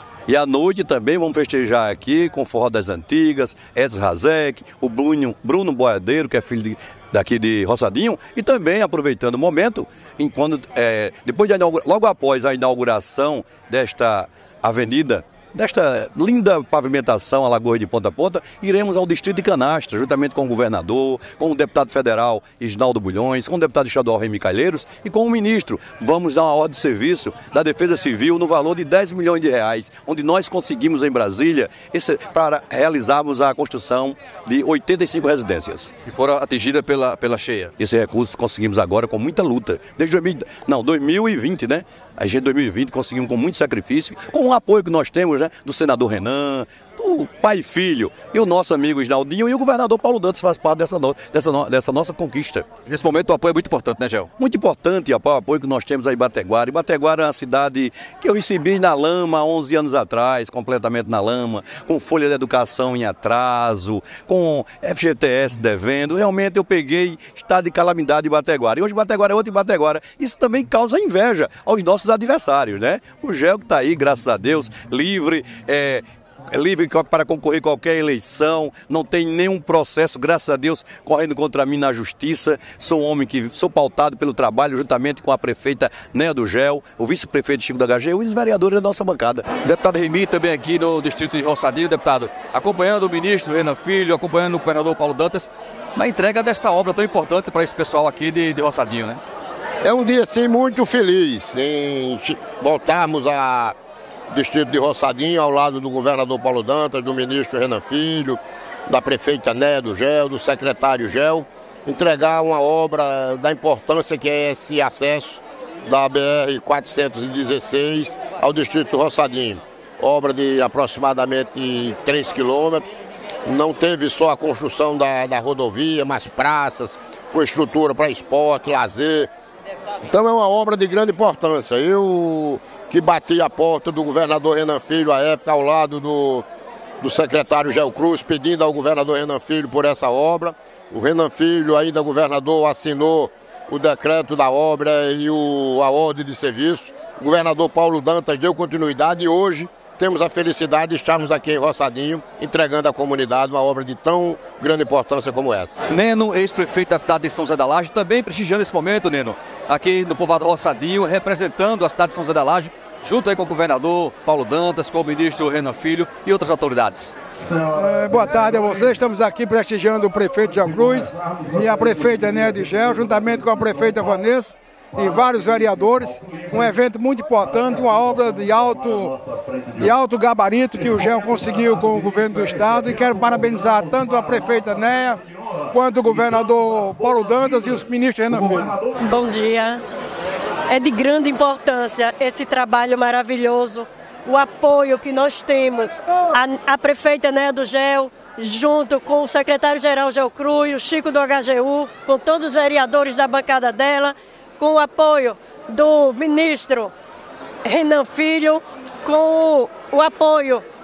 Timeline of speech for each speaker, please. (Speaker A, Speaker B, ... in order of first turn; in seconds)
Speaker A: 0.3-35.9, 37.8-52.6, 54.4-89.4
Speaker B: 36.0-37.7, 52.9-54.3, 89.6-99.2, 155.9-167.1
Speaker C: 99.8-103.8, 104.3-129.3, 130.0-136.4, 137.0-155.8
Speaker D: 167.7-179.2, 179.8-188.8
Speaker E: 189.0-189.8, 190.7-206.9, 207.6-210.6